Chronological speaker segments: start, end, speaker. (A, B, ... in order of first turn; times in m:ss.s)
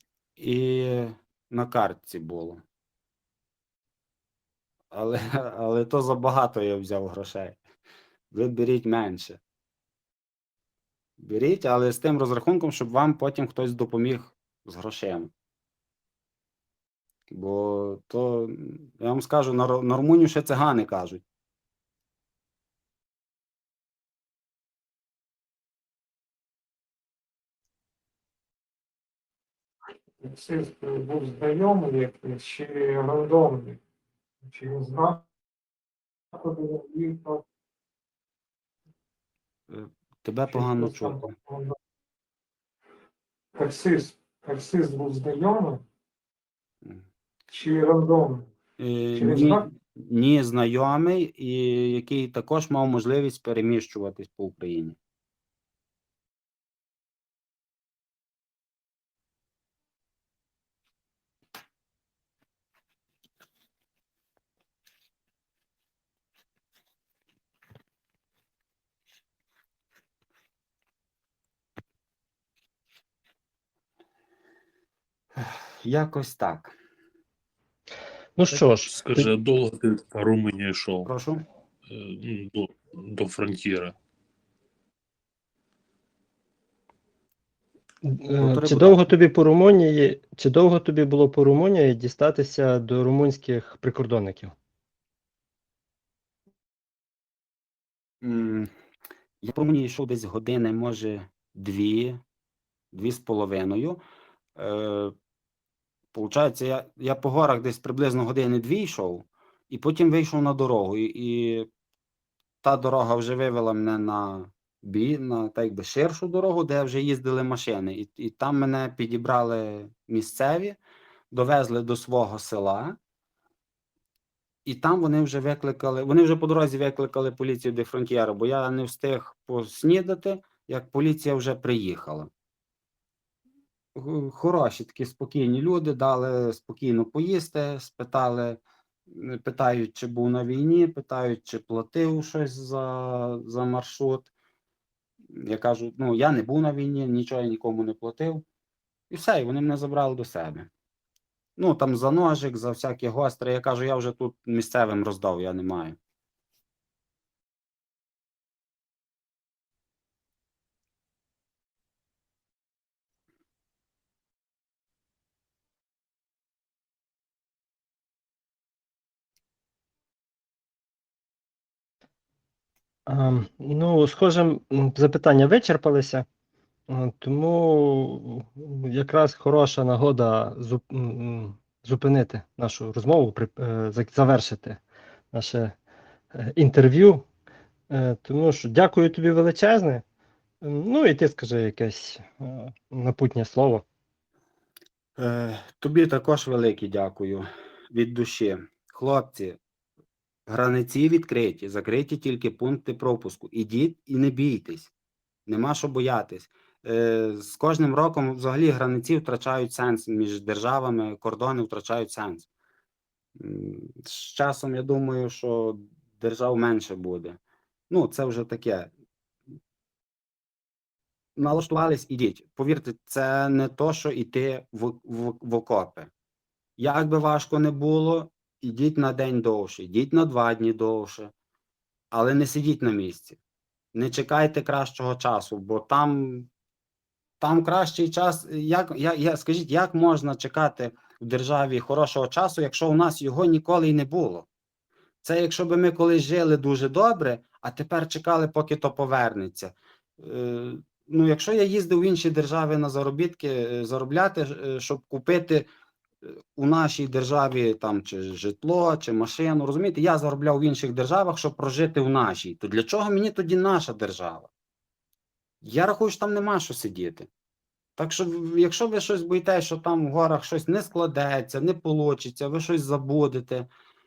0:00.4-0:02.6 A
0:04.9-0:07.6 A
0:08.3-0:09.4 A
0:11.2-0:15.3 A
0:17.3-0:21.2 A
0:30.2-0:33.8 B
0:34.4-0:35.2 B
0:36.3-0:37.4 B
0:39.7-0:41.4 A
0:40.5-0:41.8 B
0:43.6-0:45.8 B
0:47.5-0:48.5 B
0:48.8-0:55.0 A
0:49.1-0:49.7 B
1:15.8-1:16.7 A
1:18.4-1:19.3 C
1:18.6-1:21.1 D
1:21.0-1:21.4 A
1:21.9-1:23.9 D
1:28.1-1:34.5 C
1:28.4-1:29.1 A
1:38.2-1:38.7 A
1:39.4-1:42.2 A
1:42.9-1:44.0 A
1:44.6-1:45.1 A
1:46.1-1:51.7 A
1:52.6-2:00.8 A
2:01.3-2:03.0 A
2:04.6-2:12.3 A
2:13.9-2:24.3 A
2:25.3-2:28.4 A
2:29.1-2:30.7 A
2:31.6-2:36.0 A
2:53.1-2:56.2 C
2:56.9-3:04.8 C
3:05.3-3:05.7 C
3:06.4-3:07.2 C
3:07.9-3:10.0 C
3:10.6-3:13.8 C
3:15.2-3:19.6 A
3:20.5-3:24.9 A
3:25.5-3:32.5 A
3:33.4-3:37.4 A
3:37.9-3:38.9 A
3:41.4-3:46.1 A
3:46.8-3:51.3 A
3:52.1-3:53.4 A
3:53.9-3:56.5 A
3:57.4-4:04.5 A
4:05.2-4:15.6 A
4:16.2-4:24.5 A
4:25.6-4:27.3 A
4:28.0-4:33.7 A